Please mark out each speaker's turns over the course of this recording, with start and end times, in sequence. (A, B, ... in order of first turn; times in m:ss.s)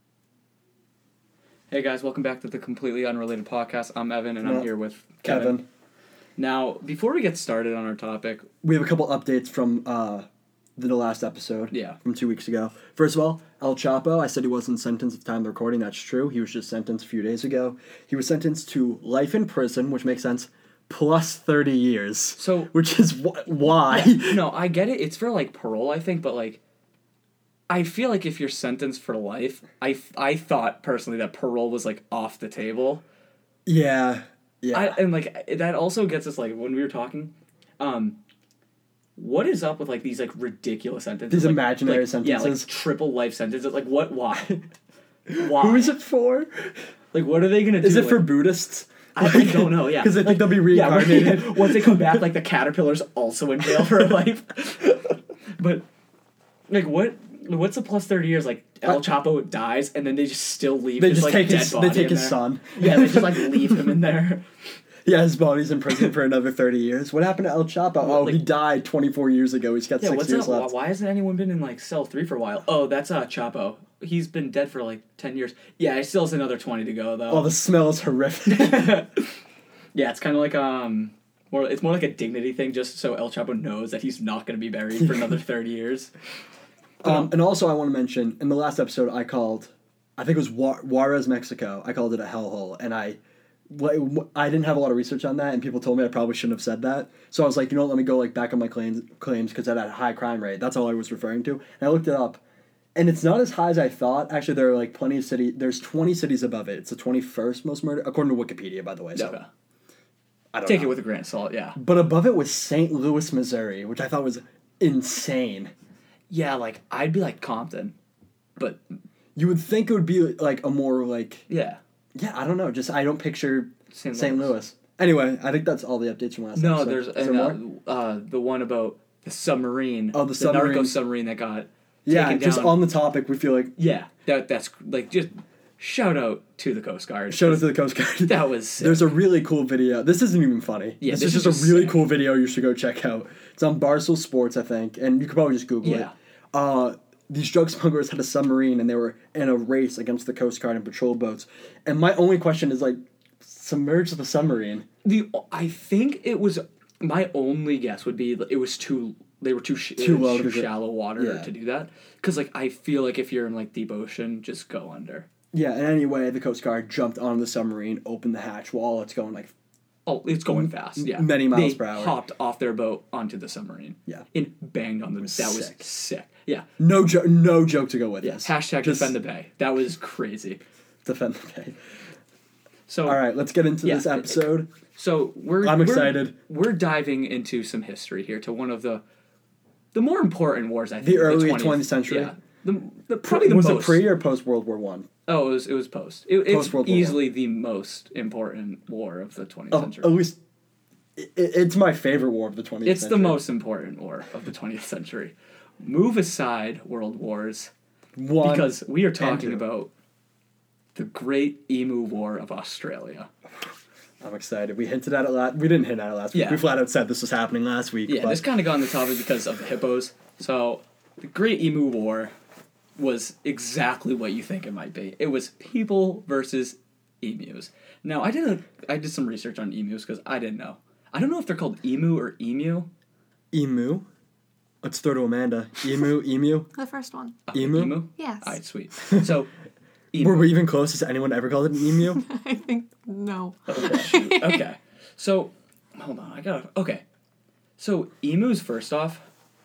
0:01.7-0:05.6 A
0:04.4-0:04.7 B
0:05.2-0:05.6 B
0:06.4-0:08.5 A
0:08.6-0:10.3 B
0:10.8-0:24.5 B
0:11.7-0:12.0 A
0:22.4-0:22.7 A
0:23.7-0:26.6 A
0:27.7-0:33.0 A
0:33.7-0:35.0 B
0:34.7-0:38.2 A
0:39.2-0:44.6 A
0:41.3-0:42.7 B
0:45.3-0:46.7 B
0:45.3-0:46.0 A
0:47.1-0:48.4 A
0:47.8-0:52.2 B
0:49.1-0:55.8 A
0:56.7-1:04.4 A
1:01.0-1:04.0 B
1:05.0-1:10.7 B
1:08.0-1:08.4 A
1:10.0-1:17.5 A
1:17.3-1:19.0 B
1:18.5-1:19.4 A
1:19.9-1:26.1 A
1:25.0-1:25.3 B
1:27.0-1:27.4 A
1:27.0-1:42.4 B
1:43.0-1:49.4 B
1:49.1-1:49.5 A
1:50.5-1:51.0 B
1:50.6-1:51.8 A
1:51.8-1:55.7 B
1:56.3-1:58.0 A
1:58.6-1:58.8 A
1:59.4-2:01.4 B
2:01.5-2:01.8 A
2:02.2-2:07.6 B
2:03.9-2:04.6 A
2:06.6-2:12.8 A
2:10.1-2:11.0 B
2:12.1-2:13.8 B
2:13.8-2:17.7 A
2:17.3-2:34.9 B
2:18.2-2:19.2 A
2:21.0-2:22.1 A
2:25.8-2:26.1 A
2:35.0-2:45.3 A
2:40.0-2:41.5 B
2:45.5-2:49.5 B
2:50.1-2:56.7 A
2:50.5-2:52.2 B
2:55.2-2:55.9 B
2:56.8-2:59.1 B
2:58.2-3:00.6 A
3:01.0-3:01.8 B
3:02.9-3:03.2 A
3:03.0-3:04.7 B
3:03.8-3:09.0 A
3:05.6-3:06.3 B
3:09.9-3:14.2 A
3:11.0-3:12.3 B
3:13.2-3:15.1 B
3:15.3-3:20.2 A
3:16.5-3:17.3 B
3:19.7-3:20.4 B
3:21.2-3:23.4 B
3:22.8-3:27.7 A
3:28.2-3:29.6 B
3:28.4-3:29.9 A
3:31.0-3:33.3 A
3:34.2-3:38.5 B
3:36.3-3:36.6 A
3:38.1-3:42.3 A
3:43.0-3:52.9 A
3:53.5-3:54.1 B
3:54.8-3:56.7 B
3:56.8-3:57.4 C
3:57.5-3:59.5 A
3:57.5-3:58.0 B
3:58.2-3:58.6 C
4:00.1-4:00.6 A
4:00.2-4:02.2 B
4:02.0-4:04.6 C
4:03.7-4:07.0 A
4:07.8-4:09.2 A